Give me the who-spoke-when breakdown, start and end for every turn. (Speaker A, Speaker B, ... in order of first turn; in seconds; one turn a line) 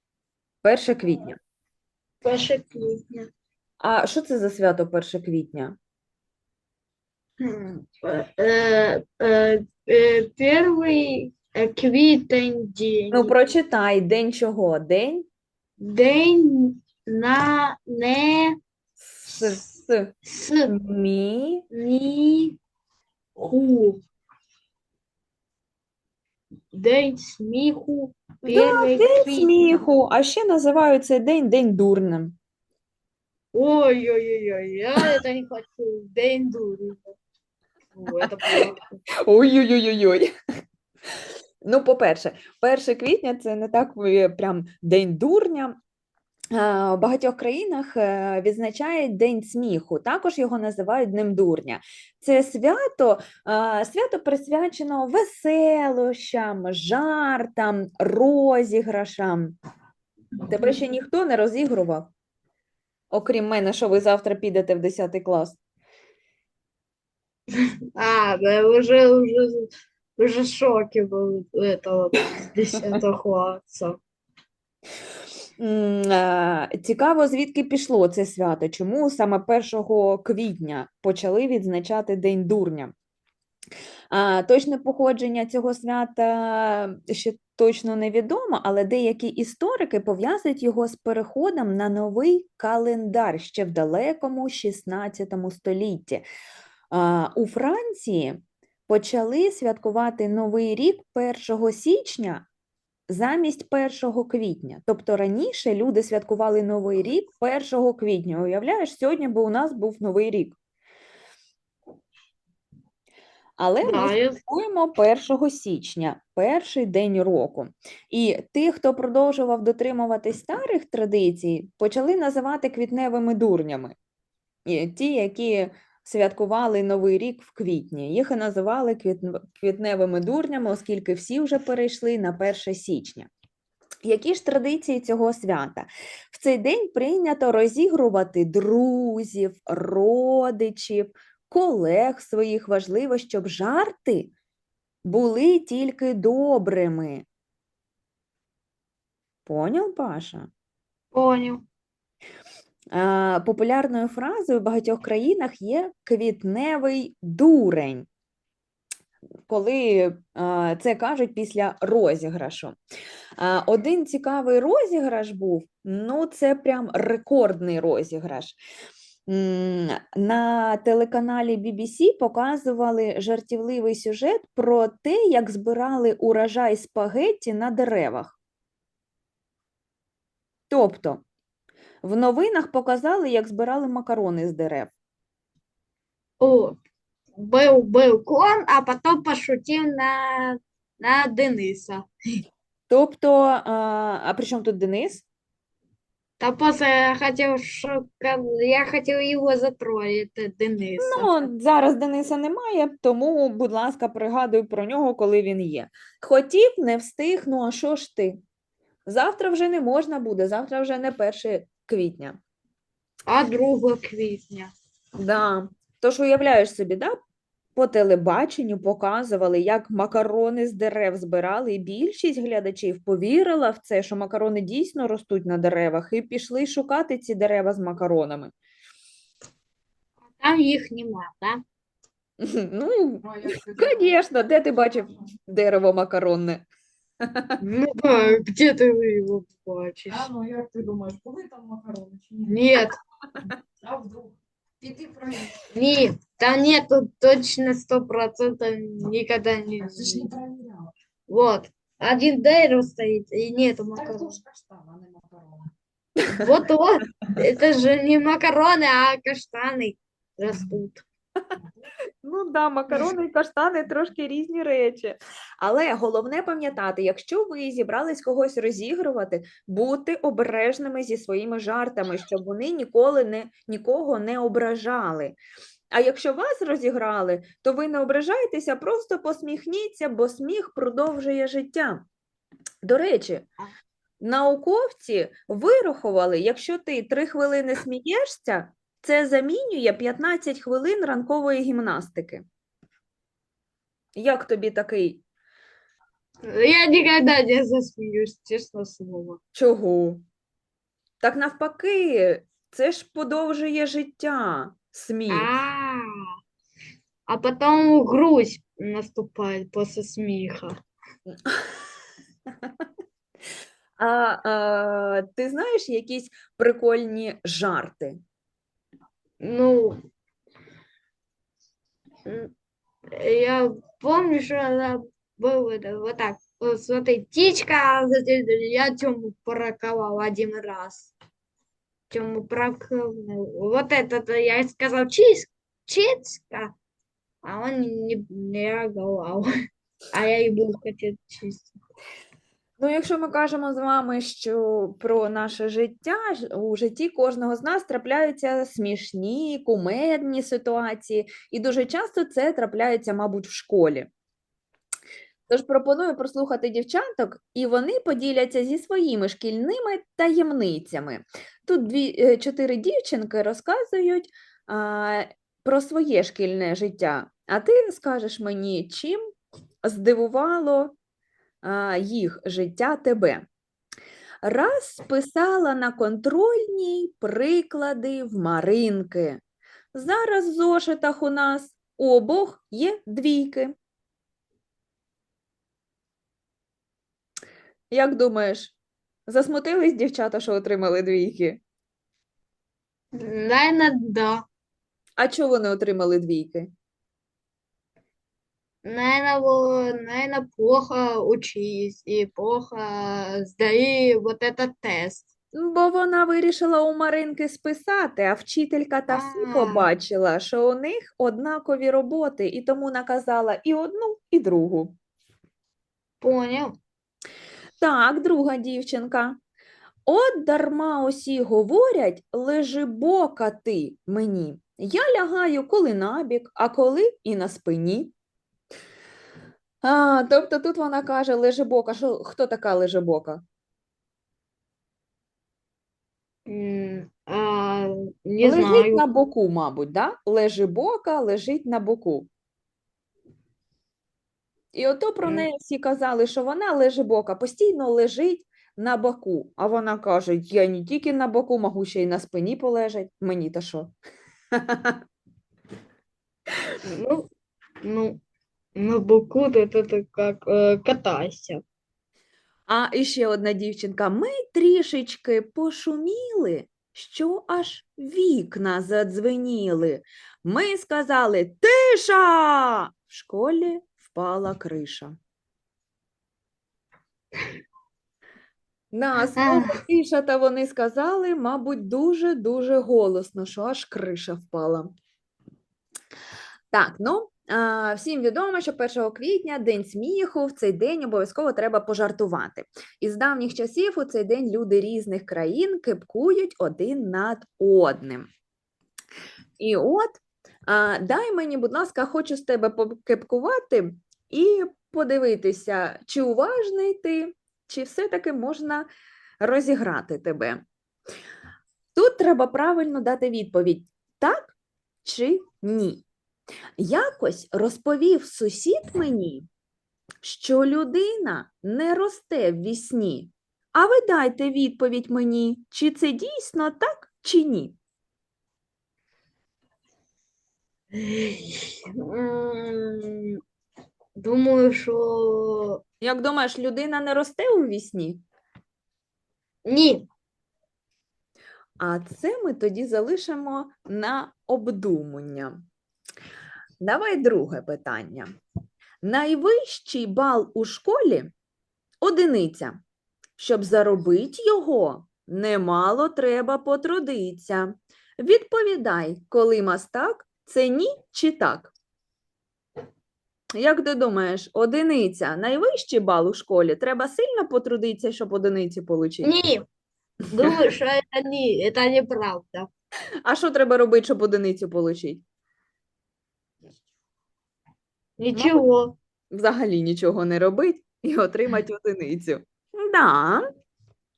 Speaker A: 0.6-1.4
Speaker B: 2.2-3.3
Speaker A: 3.8-5.8
Speaker B: 7.4-13.3
Speaker A: 13.1-15.3
Speaker B: 15.8-18.6
Speaker A: 19.0-20.1
Speaker B: 20.3-20.7
Speaker A: 20.7-21.6
Speaker B: 21.7-22.6
Speaker B: 23.4-24.0
Speaker B: 26.7-29.8
Speaker A: 28.4-32.4
Speaker B: 33.5-37.2
Speaker B: 38.0-38.9
Speaker A: 39.2-40.3
Speaker A: 41.6-45.8
Speaker A: 46.5-59.6
Speaker A: 60.5-62.1
Speaker A: 63.1-65.6
Speaker B: 68.0-74.0
Speaker A: 75.6-82.9
Speaker A: 84.1-96.3
Speaker A: 96.9-102.5
Speaker A: 103.1-110.6
Speaker A: 113.6-124.0
Speaker B: 113.8-114.4
Speaker A: 124.7-133.3
Speaker A: 134.0-144.3
Speaker A: 145.1-147.2
Speaker A: 149.5-150.5
Speaker B: 151.1-151.6
Speaker A: 152.9-158.1
Speaker A: 159.5-162.8
Speaker A: 163.4-168.6
Speaker A: 169.3-178.4
Speaker A: 180.7-181.2
Speaker A: 182.0-184.9
Speaker B: 186.4-186.8
Speaker B: 187.4-192.1
Speaker A: 192.9-195.2
Speaker B: 196.4-201.3
Speaker A: 201.0-208.4
Speaker A: 209.1-212.4
Speaker B: 213.3-214.7
Speaker A: 215.2-217.2
Speaker A: 217.8-228.5
Speaker B: 230.4-231.6
Speaker A: 232.4-236.7
Speaker C: 233.2-234.1
Speaker A: 237.3-237.6
Speaker B: 237.6-240.3
Speaker C: 240.1-242.6
Speaker B: 242.5-243.0
Speaker C: 243.8-245.6
Speaker B: 245.7-250.3
Speaker C: 249.8-250.9
Speaker B: 251.3-254.4
Speaker C: 254.0-255.7
Speaker B: 256.3-261.0
Speaker A: 262.2-275.4
Speaker A: 275.9-282.1
Speaker A: 282.8-283.5
Speaker A: 284.2-292.4
Speaker A: 294.2-295.2
Speaker B: 296.5-299.4
Speaker A: 299.5-300.2
Speaker A: 301.2-305.5
Speaker B: 305.3-306.1
Speaker B: 307.3-310.8
Speaker A: 314.0-318.2
Speaker B: 319.4-320.0
Speaker B: 322.3-322.5
Speaker B: 323.1-331.1
Speaker B: 332.1-336.7
Speaker B: 337.4-339.5
Speaker B: 340.1-341.8
Speaker A: 342.8-354.1
Speaker A: 355.5-369.2
Speaker A: 369.8-371.0
Speaker A: 371.6-373.4
Speaker A: 374.4-379.4
Speaker A: 379.9-383.8
Speaker A: 387.9-391.6
Speaker B: 393.1-394.4
Speaker A: 395.2-396.7
Speaker B: 398.9-405.3
Speaker A: 405.5-414.9
Speaker B: 409.1-409.9
Speaker B: 416.2-416.8
Speaker A: 417.8-419.4
Speaker A: 420.1-428.1
Speaker A: 429.8-433.4
Speaker B: 436.5-439.1
Speaker A: 438.4-442.3
Speaker A: 444.7-453.9
Speaker A: 454.6-455.0
Speaker B: 456.9-457.3
Speaker B: 457.8-458.2
Speaker B: 458.8-461.6
Speaker A: 462.7-475.1
Speaker A: 478.9-484.9
Speaker B: 479.4-479.8
Speaker A: 486.7-498.3
Speaker A: 499.6-508.9
Speaker A: 509.4-510.6
Speaker A: 511.9-516.0
Speaker A: 516.8-519.5
Speaker A: 520.2-527.8
Speaker B: 530.9-533.4
Speaker B: 534.2-535.8
Speaker A: 536.0-538.2
Speaker B: 539.7-540.1
Speaker A: 541.8-545.6
Speaker A: 546.8-548.3
Speaker A: 549.0-551.3
Speaker A: 552.0-552.8
Speaker A: 553.4-561.7
Speaker A: 563.6-569.3
Speaker B: 569.2-569.7
Speaker B: 570.3-572.7
Speaker A: 573.2-575.2
Speaker B: 578.2-579.0
Speaker A: 578.4-578.6
Speaker A: 579.3-583.5